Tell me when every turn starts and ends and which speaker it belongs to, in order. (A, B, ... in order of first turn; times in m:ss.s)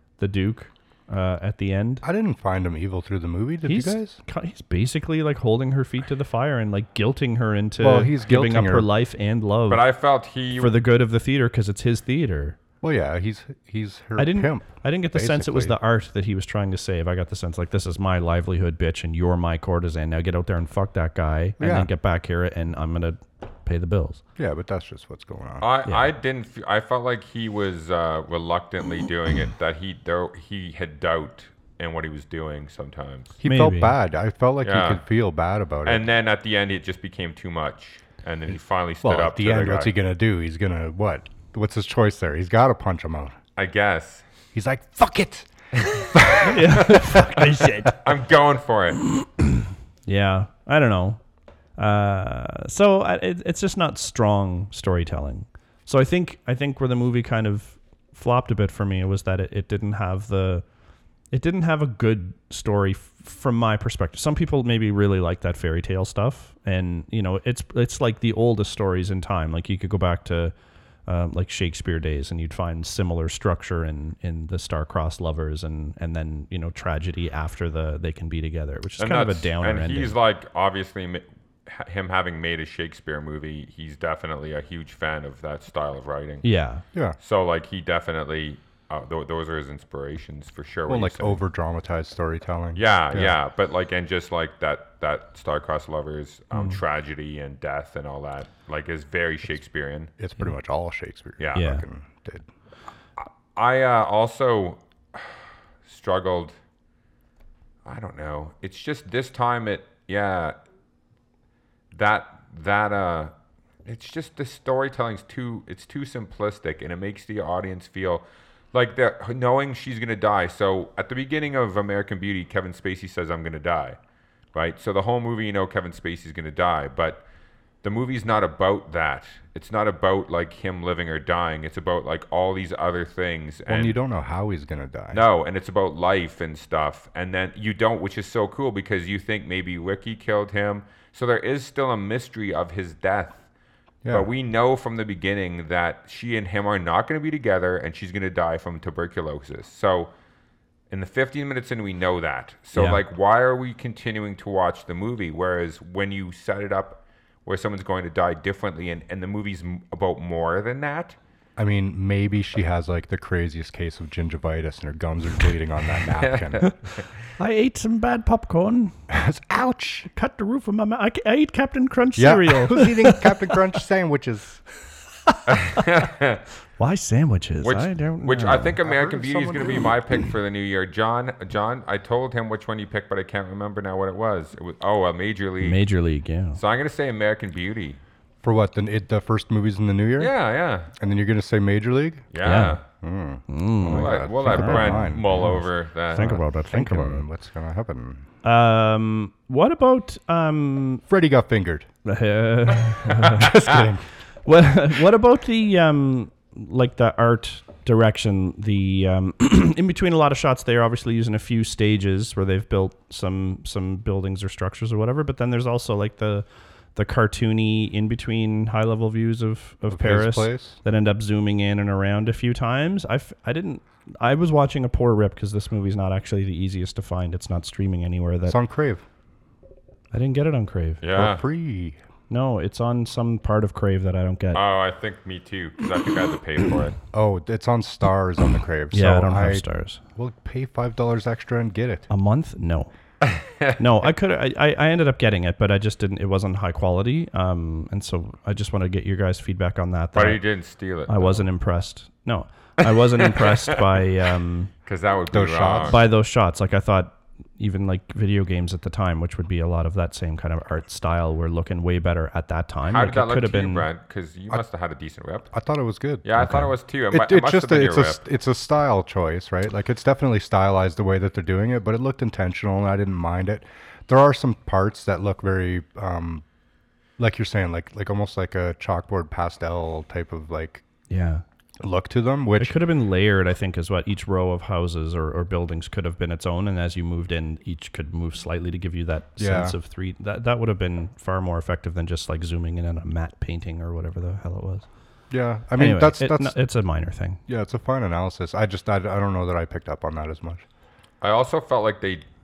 0:00.2-0:02.0 A
0:02.0-0:04.2 B
0:03.6-0:09.8 A
0:07.8-0:08.9 B
0:09.7-0:10.7 C
0:10.6-0:12.6 A
0:12.8-0:15.7 B
0:14.2-0:24.2 A
0:21.6-0:21.9 B
0:24.4-0:25.6 B
0:25.6-0:33.3 C
0:33.4-0:36.0 B
0:33.4-0:34.0 A
0:34.6-0:35.0 C
0:35.8-0:39.9 C
0:39.0-0:43.4 B
0:43.6-0:44.2 C
0:44.5-0:47.9 B
0:46.4-0:48.0 A
0:48.0-0:49.0 C
0:49.2-0:51.2 A
0:51.8-1:00.6 A
1:01.3-1:10.5 A
1:11.1-1:20.1 A
1:19.0-1:26.4 C
1:26.4-1:26.8 A
1:27.2-1:31.4 C
1:30.9-1:33.3 B
1:32.8-1:40.1 C
1:36.5-1:36.8 A
1:40.2-1:42.5 B
1:41.4-1:41.6 C
1:41.6-1:41.8 A
1:43.2-1:46.6 C
1:47.8-1:50.5 C
1:51.9-1:53.3 C
1:53.8-2:04.0 C
2:04.5-2:07.2 C
2:07.8-2:14.0 C
2:13.7-2:15.2 B
2:15.1-2:23.4 C
2:24.1-2:30.1 C
2:30.9-2:41.2 C
2:32.7-2:33.0 A
2:41.6-2:46.7 B
2:46.2-2:47.0 C
2:47.4-2:48.9 A
2:49.1-2:50.1 B
2:50.1-2:53.3 A
2:52.2-2:54.6 B
2:55.3-2:55.8 A
2:55.5-2:56.4 C
2:56.8-2:58.8 A
2:57.6-3:05.8 C
2:58.8-2:59.9 B
3:05.6-3:06.6 A
3:06.5-3:08.0 C
3:08.4-3:10.3 B
3:10.2-3:10.9 C
3:11.0-3:12.3 B
3:12.3-3:12.8 C
3:12.4-3:12.8 A
3:13.0-3:15.6 B
3:13.5-3:17.2 A
3:13.8-3:16.4 C
3:16.2-3:18.2 B
3:18.4-3:21.0 A
3:21.1-3:21.9 B
3:22.0-3:23.5 A
3:23.3-3:24.0 B
3:24.4-3:48.6 A
3:39.9-3:40.8 B
3:48.4-3:49.0 B
3:50.1-3:51.0 A
3:51.0-3:51.4 C
3:51.1-3:52.0 B
3:52.3-3:54.6 A
3:54.5-3:57.0 C
3:57.1-4:02.1 B
3:58.9-4:00.0 A
4:02.1-4:02.9 A
4:03.2-4:03.8 C
4:03.8-4:10.4 A
4:10.1-4:11.4 C
4:11.1-4:14.7 A
4:12.8-4:13.7 C
4:14.8-4:16.0 C
4:15.3-4:16.0 B
4:15.9-4:23.9 A
4:22.9-4:25.5 C
4:25.5-4:36.4 B
4:26.2-4:28.2 C
4:26.4-4:26.7 A
4:37.2-4:40.8 B
4:41.1-4:41.4 A
4:41.8-4:42.8 B
4:42.6-4:54.9 A
4:49.4-4:49.7 B
4:55.3-4:56.6 B
4:55.8-4:57.4 A
4:57.5-5:00.6 B
5:01.2-5:02.2 C